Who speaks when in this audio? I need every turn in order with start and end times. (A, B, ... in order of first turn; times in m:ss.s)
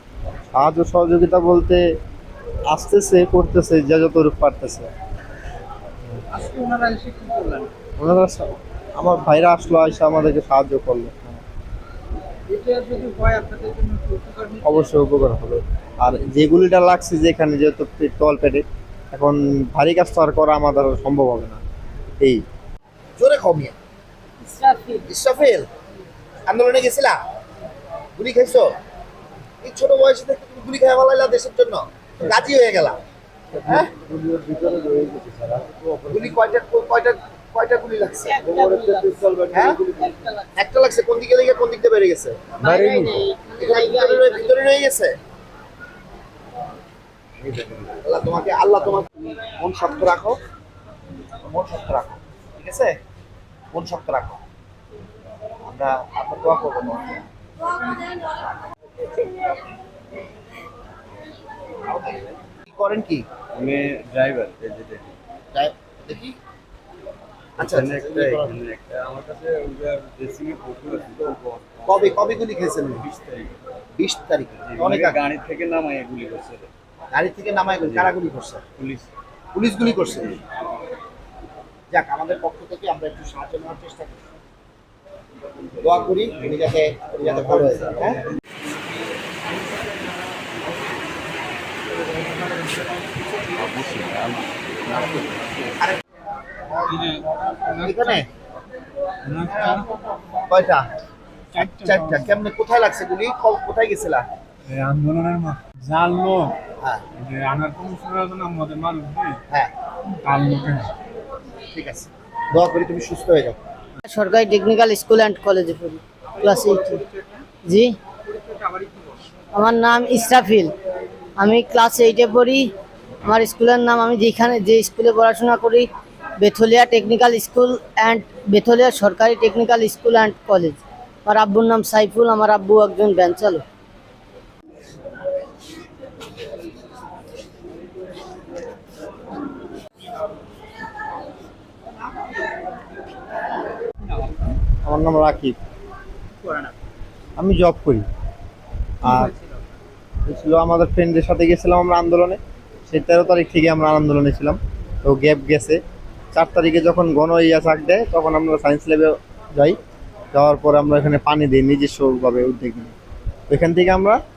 0:00.6-0:01.8 A
0:02.7-0:04.9 A
0:06.3-0:07.7 B
0:08.0-0:11.4 A
0:12.5-0:15.0 B
0:14.6-0:21.6 A
0:23.2-0:23.8 C
0:24.4-0:25.1 D
0:25.1-0:25.7 C
0:26.5-0:27.2 C
0:28.2-0:28.7 C
0:29.6-0:33.0 C
0:33.6-0:36.4 E
0:33.6-0:33.9 C
0:36.1-0:38.4 C
0:38.3-0:39.3 D
0:38.5-0:39.9 E
0:39.5-0:39.9 C
0:40.0-0:40.6 D
0:40.6-0:42.8 C
0:42.6-0:44.6 D
0:43.6-0:45.2 C
0:47.4-0:48.0 E
0:48.0-0:50.4 C
0:51.4-0:52.9 C
0:53.7-0:54.4 C
0:55.6-0:57.2 C
1:01.9-1:03.3 C
1:03.5-1:05.1 E
1:05.5-1:06.4 C
1:07.6-1:08.5 C
1:07.6-1:13.5 E
1:11.8-1:13.0 C
1:14.0-1:15.2 C
1:14.6-1:16.7 E
1:17.1-1:18.6 C
1:17.8-1:18.2 E
1:18.8-1:19.1 E
1:19.5-1:20.4 C
1:21.9-1:24.2 C
1:25.8-1:28.2 C
1:27.1-1:28.2 E
1:33.4-1:35.8 E
1:36.9-1:38.2 F
1:37.8-1:38.3 C
1:39.2-1:39.9 F
1:40.5-1:40.9 C
1:41.5-1:42.4 F
1:41.6-1:44.3 C
1:44.7-1:46.6 F
1:47.2-1:49.4 F
1:50.2-1:50.9 F
1:51.7-1:53.6 C
1:54.1-1:57.0 D
1:56.3-1:57.5 B
1:57.6-1:57.9 D
1:58.2-1:59.2 B
1:59.5-2:00.7 D
2:01.4-2:02.6 D
2:03.2-2:05.9 D
2:06.4-2:13.6 D
2:24.1-2:24.5 B
2:24.8-2:25.6 A
2:26.3-2:26.8 B
2:27.4-2:28.0 A
2:29.0-2:29.3 A
2:29.0-2:29.8 B
2:30.3-2:35.8 A
2:36.3-2:39.8 A
2:40.3-2:42.9 A
2:43.5-2:44.2 A